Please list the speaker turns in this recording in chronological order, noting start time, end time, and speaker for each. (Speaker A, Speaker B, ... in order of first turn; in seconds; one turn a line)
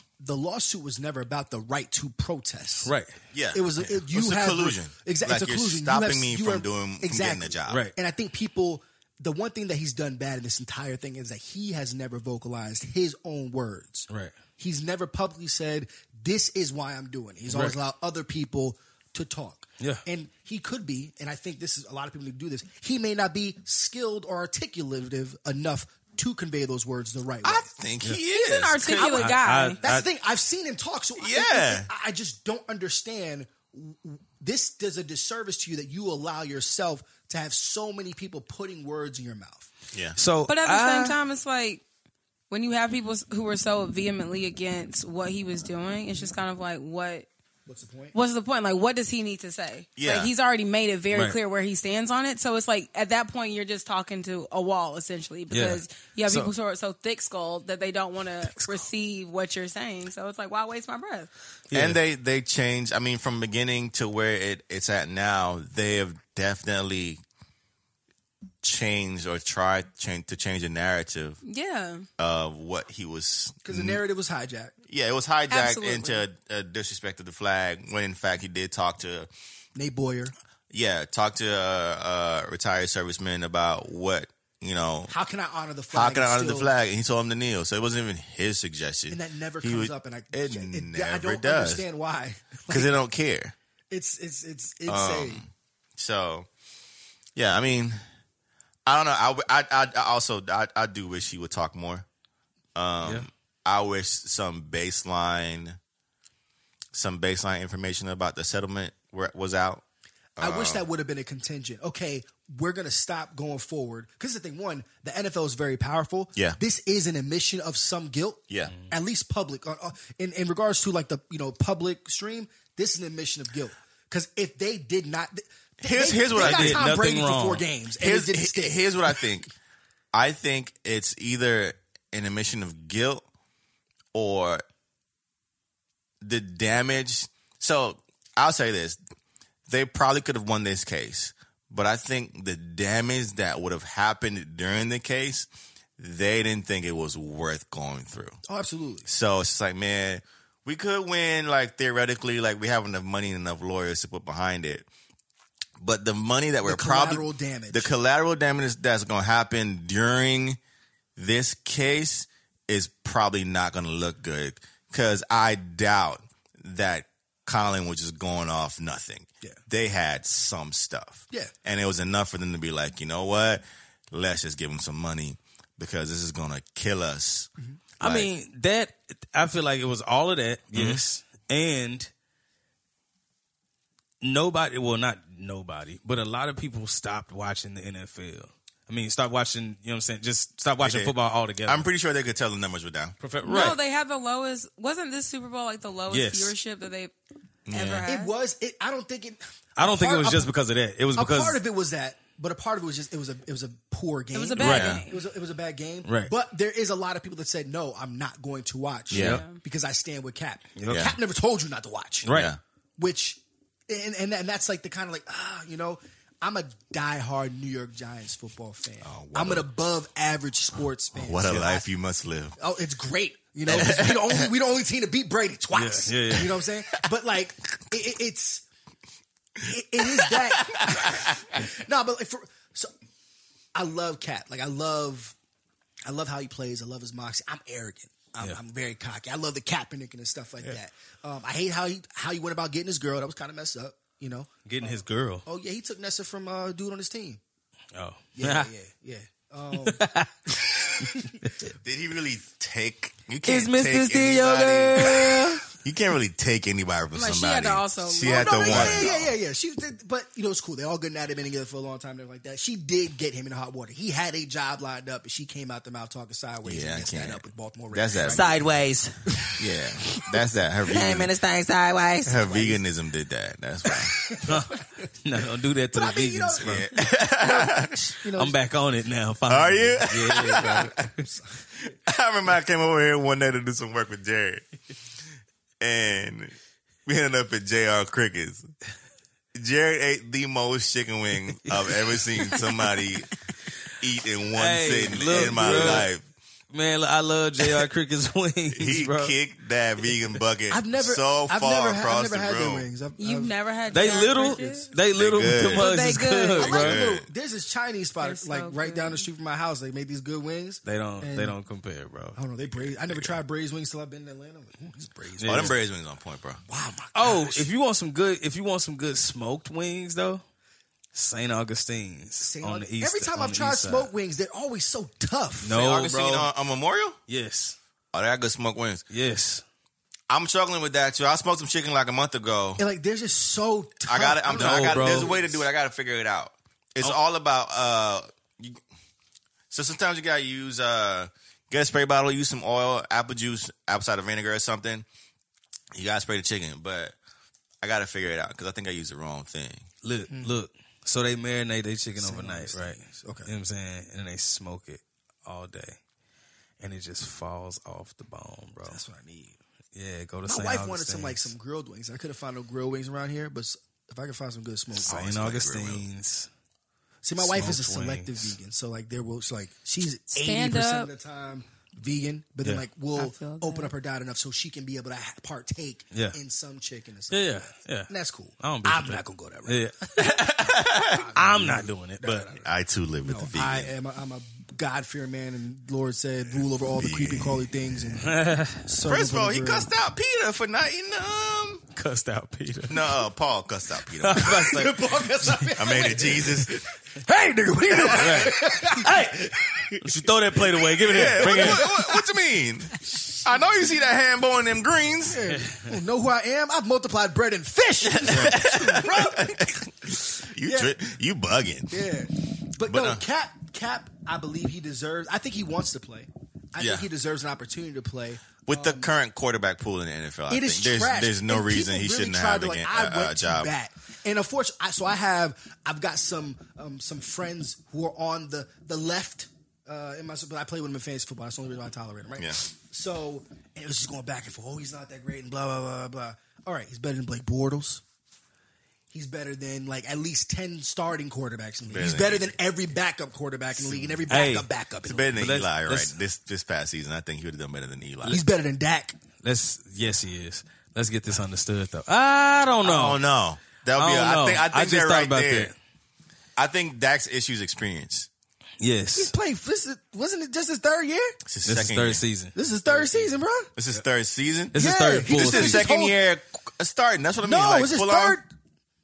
Speaker A: 0.2-2.9
Speaker B: 2.9-3.2
Speaker C: 3.3-7.9
Speaker A: 3.5-27.7
Speaker B: 7.7-8.0
Speaker B: 17.5-17.8
Speaker C: 27.4-29.4
Speaker D: 28.3-29.8
Speaker B: 28.8-30.1
Speaker A: 29.8-39.7
Speaker C: 31.2-31.9
Speaker C: 39.9-40.2
Speaker B: 40.2-41.2
Speaker D: 40.5-41.8
Speaker D: 42.5-47.3
Speaker A: 47.7-48.1
Speaker D: 48.1-61.3
Speaker C: 50.0-50.3
Speaker B: 51.1-51.4
Speaker B: 55.5-56.5
Speaker B: 61.7-62.0
Speaker C: 61.7-67.2
Speaker C: 68.6-71.4
Speaker D: 71.5-72.1
Speaker C: 72.2-74.0
Speaker A: 73.6-74.8
Speaker C: 74.9-79.3
Speaker D: 75.5-76.2
Speaker A: 79.8-80.3
Speaker C: 80.7-85.1
Speaker A: 85.1-86.7
Speaker C: 85.9-91.9
Speaker A: 89.1-92.9
Speaker C: 92.7-93.5
Speaker A: 93.9-95.4
Speaker C: 94.9-96.5
Speaker C: 97.4-98.0
Speaker C: 98.9-102.1
Speaker C: 102.8-105.8
Speaker C: 106.9-109.8
Speaker C: 110.4-110.8
Speaker A: 110.4-129.2
Speaker C: 125.8-126.9
Speaker B: 126.3-127.7
Speaker C: 128.0-129.5
Speaker C: 130.1-133.2
Speaker C: 134.1-134.6
Speaker C: 136.2-139.0
Speaker C: 139.7-148.4
Speaker A: 148.5-149.1
Speaker C: 149.1-154.9
Speaker C: 155.8-160.6
Speaker A: 156.6-157.9
Speaker C: 161.2-177.5
Speaker B: 178.0-182.1
Speaker C: 178.0-178.3
Speaker C: 180.7-181.0
Speaker B: 184.2-191.9
Speaker C: 190.8-193.7
Speaker B: 193.2-193.8
Speaker D: 193.4-197.1
Speaker B: 196.1-196.5
Speaker C: 197.7-198.1
Speaker D: 197.7-198.3
Speaker A: 198.1-200.5
Speaker B: 199.8-201.6
Speaker A: 201.2-212.3
Speaker D: 204.3-205.2
Speaker B: 204.6-205.0
Speaker C: 204.6-205.0
Speaker B: 206.1-206.3
Speaker C: 209.1-209.4
Speaker B: 209.1-209.4
Speaker D: 209.2-209.6
Speaker B: 210.8-211.1
Speaker C: 210.9-211.1
Speaker B: 212.2-212.5
Speaker C: 212.3-212.6
Speaker A: 213.0-221.9
Speaker C: 219.0-219.7
Speaker C: 221.2-222.6
Speaker A: 222.6-228.7
Speaker C: 223.7-224.5
Speaker B: 225.7-226.5
Speaker A: 229.6-232.9
Speaker C: 230.0-231.6
Speaker A: 233.8-235.3
Speaker A: 236.0-247.4
Speaker B: 244.7-245.4
Speaker B: 247.9-248.7
Speaker A: 248.4-250.0
Speaker B: 249.8-251.6
Speaker A: 251.0-251.4
Speaker C: 251.8-259.4
Speaker B: 253.5-255.7
Speaker D: 257.1-259.1
Speaker A: 258.2-268.6
Speaker C: 266.6-268.6
Speaker E: 268.3-269.5
Speaker C: 269.6-271.3
Speaker E: 270.9-272.8
Speaker C: 272.2-274.2
Speaker B: 274.5-276.9
Speaker A: 275.9-278.6
Speaker C: 276.6-277.9
Speaker B: 278.4-281.1
Speaker C: 279.5-281.0
Speaker A: 281.2-281.6
Speaker C: 281.8-284.6
Speaker C: 285.8-286.6
Speaker C: 287.1-288.7
Speaker C: 289.6-293.3
Speaker B: 291.7-292.8
Speaker C: 294.0-296.2
Speaker B: 294.6-296.1
Speaker A: 295.3-296.1
Speaker B: 296.7-299.3
Speaker C: 298.7-302.9
Speaker A: 300.7-304.7
Speaker D: 303.2-304.9
Speaker B: 303.9-307.0
Speaker C: 305.1-305.9
Speaker D: 305.7-306.9
Speaker A: 306.6-311.6
Speaker C: 306.6-307.3
Speaker D: 308.2-309.3
Speaker B: 310.9-313.3
Speaker A: 312.4-315.8
Speaker B: 315.4-315.7
Speaker C: 315.4-316.6
Speaker A: 316.7-317.7
Speaker B: 317.1-320.4
Speaker B: 321.1-324.1
Speaker A: 322.4-325.8
Speaker B: 325.6-326.5
Speaker C: 325.7-327.2
Speaker B: 327.3-327.8
Speaker C: 328.1-329.1
Speaker B: 329.1-329.6
Speaker C: 330.3-332.8
Speaker A: 332.8-335.6
Speaker C: 334.1-338.8
Speaker B: 334.5-335.4
Speaker C: 339.7-345.1
Speaker C: 345.9-347.2
Speaker C: 347.8-349.9
Speaker B: 350.0-356.0
Speaker A: 350.3-350.5
Speaker A: 352.2-353.5
Speaker B: 356.8-359.0
Speaker A: 358.9-359.6
Speaker B: 359.9-361.5
Speaker A: 360.5-365.1
Speaker B: 365.0-366.5
Speaker C: 365.1-366.1
Speaker A: 367.2-379.8
Speaker B: 367.4-368.6
Speaker D: 370.3-371.1
Speaker D: 373.1-373.9
Speaker B: 377.3-380.6
Speaker C: 380.2-381.3
Speaker A: 381.1-382.6
Speaker B: 381.3-382.5
Speaker C: 382.6-383.9
Speaker A: 383.2-389.9
Speaker C: 387.0-388.0
Speaker B: 388.2-388.8
Speaker C: 389.0-391.9
Speaker B: 391.9-393.1
Speaker C: 392.9-394.9
Speaker B: 394.2-396.5
Speaker A: 394.4-399.9
Speaker C: 395.8-396.8
Speaker B: 397.3-399.5
Speaker C: 397.9-398.7
Speaker B: 400.0-402.0
Speaker C: 400.9-405.4
Speaker A: 401.3-402.1
Speaker A: 403.1-403.4
Speaker A: 405.3-411.0
Speaker C: 408.1-412.1
Speaker B: 408.3-408.7
Speaker A: 411.9-419.1
Speaker C: 412.8-413.2
Speaker C: 416.8-417.1
Speaker C: 418.7-423.7
Speaker A: 420.5-438.0
Speaker A: 439.1-445.3
Speaker C: 441.9-442.6
Speaker C: 443.9-444.2
Speaker B: 444.3-444.7
Speaker C: 445.1-448.4
Speaker B: 445.3-446.1
Speaker A: 448.3-449.1
Speaker B: 449.4-453.2
Speaker C: 452.8-455.7
Speaker B: 454.0-455.8
Speaker C: 456.6-458.3
Speaker B: 458.8-459.3
Speaker A: 459.1-461.4
Speaker C: 461.5-462.2
Speaker B: 461.6-463.3
Speaker A: 462.6-463.7
Speaker C: 463.8-468.4
Speaker B: 464.7-465.8
Speaker A: 464.8-466.2
Speaker A: 467.4-468.5